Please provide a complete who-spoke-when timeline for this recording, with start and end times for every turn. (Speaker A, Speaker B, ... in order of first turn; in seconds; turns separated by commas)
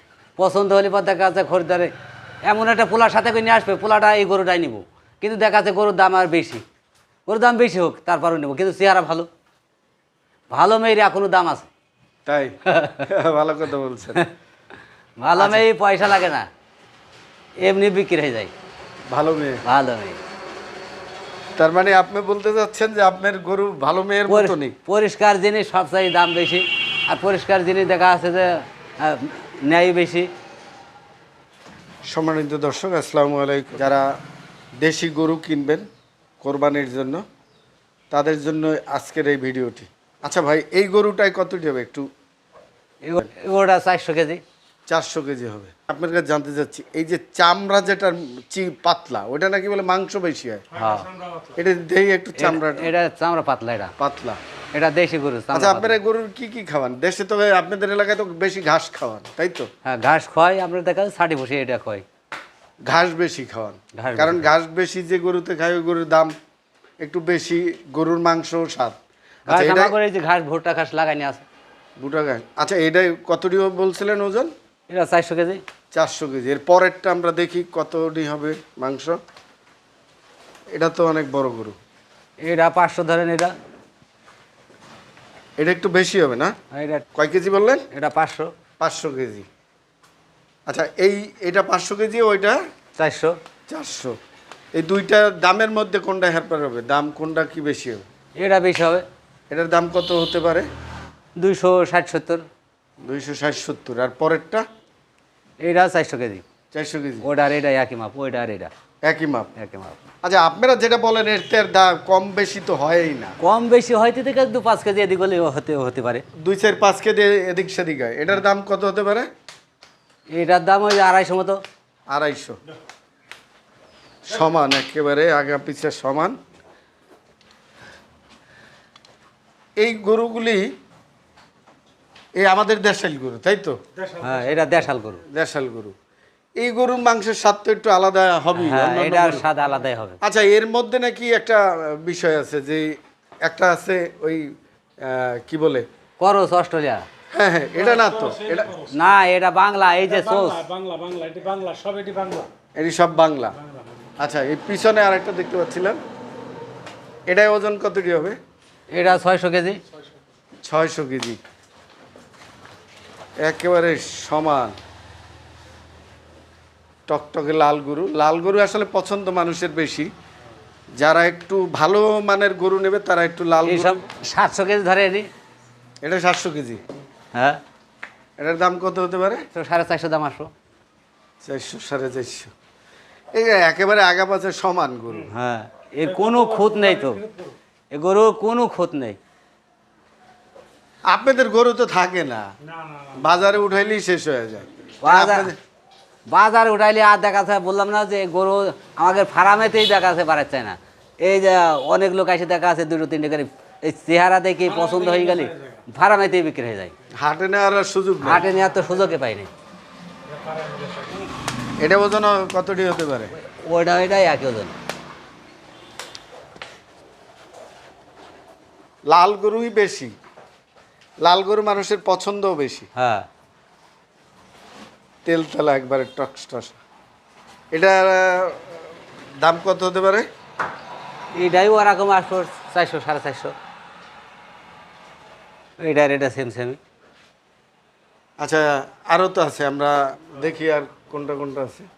Speaker A: 0.4-1.9, Speaker A: 2.4-6.6, Speaker A: 7.3-9.3, Speaker A: 10.5-11.7, Speaker B: 12.2-14.2, Speaker A: 12.7-13.1, Speaker A: 15.2-16.4, Speaker B: 15.4-15.6, Speaker A: 17.6-18.5, Speaker B: 19.1-19.6, Speaker A: 19.6-20.2, Speaker B: 21.6-24.7, Speaker A: 24.3-30.3, Speaker B: 32.1-34.1, Speaker B: 34.8-35.9, Speaker B: 36.4-37.2, Speaker B: 38.1-42.1, Speaker A: 43.0-44.4, Speaker B: 44.9-50.7, Speaker C: 50.7-51.5, Speaker A: 50.8-51.1, Speaker B: 51.5-52.9, Speaker A: 52.4-53.9, Speaker B: 54.0-54.4, Speaker A: 54.7-56.0, Speaker B: 55.5-59.7, Speaker A: 59.8-62.0, Speaker B: 62.8-66.3, Speaker A: 64.0-64.5, Speaker B: 67.0-69.0, Speaker B: 69.5-69.9, Speaker A: 69.5-71.4, Speaker B: 72.0-74.5, Speaker A: 74.9-75.6, Speaker B: 75.9-79.2, Speaker B: 80.7-81.8, Speaker A: 82.4-83.5, Speaker B: 85.6-86.5, Speaker A: 86.7-87.0, Speaker B: 87.1-87.8, Speaker A: 87.9-88.5, Speaker B: 88.8-89.5, Speaker B: 90.7-92.6, Speaker A: 93.0-93.3, Speaker B: 93.7-94.2, Speaker B: 94.7-98.0, Speaker A: 98.4-99.0, Speaker B: 99.5-100.7, Speaker A: 101.4-102.4, Speaker B: 103.0-104.7, Speaker A: 105.6-106.4, Speaker B: 106.7-107.2, Speaker A: 107.2-108.7, Speaker B: 109.0-109.5, Speaker A: 109.5-110.0, Speaker B: 110.2-113.3, Speaker A: 113.4-116.2, Speaker B: 116.4-119.3, Speaker A: 120.3-121.6, Speaker B: 122.1-122.6, Speaker B: 124.2-126.4, Speaker B: 129.8-130.6, Speaker B: 132.4-133.8, Speaker C: 134.0-134.5, Speaker A: 134.2-135.2, Speaker B: 135.3-135.9, Speaker B: 136.6-139.4, Speaker A: 138.5-140.2, Speaker B: 140.2-144.5, Speaker B: 145.0-145.8, Speaker A: 146.2-147.1, Speaker B: 147.3-148.7, Speaker C: 147.8-148.9, Speaker A: 148.9-150.7, Speaker C: 150.1-152.5, Speaker B: 152.8-153.6, Speaker B: 154.2-156.0, Speaker B: 157.3-158.4, Speaker A: 158.9-159.8, Speaker B: 160.6-161.4, Speaker B: 163.4-164.8, Speaker B: 167.1-170.1, Speaker B: 171.0-174.0, Speaker A: 173.6-175.3, Speaker B: 176.0-176.8, Speaker A: 177.3-177.6, Speaker B: 178.4-179.4, Speaker A: 179.5-180.5, Speaker B: 181.4-182.5, Speaker B: 183.3-185.3, Speaker A: 185.3-187.2, Speaker C: 186.1-187.5, Speaker A: 187.9-189.2, Speaker B: 191.1-192.5, Speaker C: 192.7-193.2, Speaker B: 193.1-195.6, Speaker A: 195.0-195.5, Speaker A: 196.3-206.9, Speaker C: 204.8-205.8, Speaker B: 207.2-208.4, Speaker A: 208.2-209.5, Speaker C: 210.3-211.3, Speaker B: 211.8-213.3, Speaker A: 213.4-214.7, Speaker B: 219.1-220.1, Speaker B: 221.2-222.9, Speaker A: 222.9-223.2, Speaker B: 225.2-226.8, Speaker B: 227.7-228.8, Speaker B: 229.4-230.3, Speaker A: 231.4-233.5, Speaker A: 235.8-236.8, Speaker B: 238.4-241.9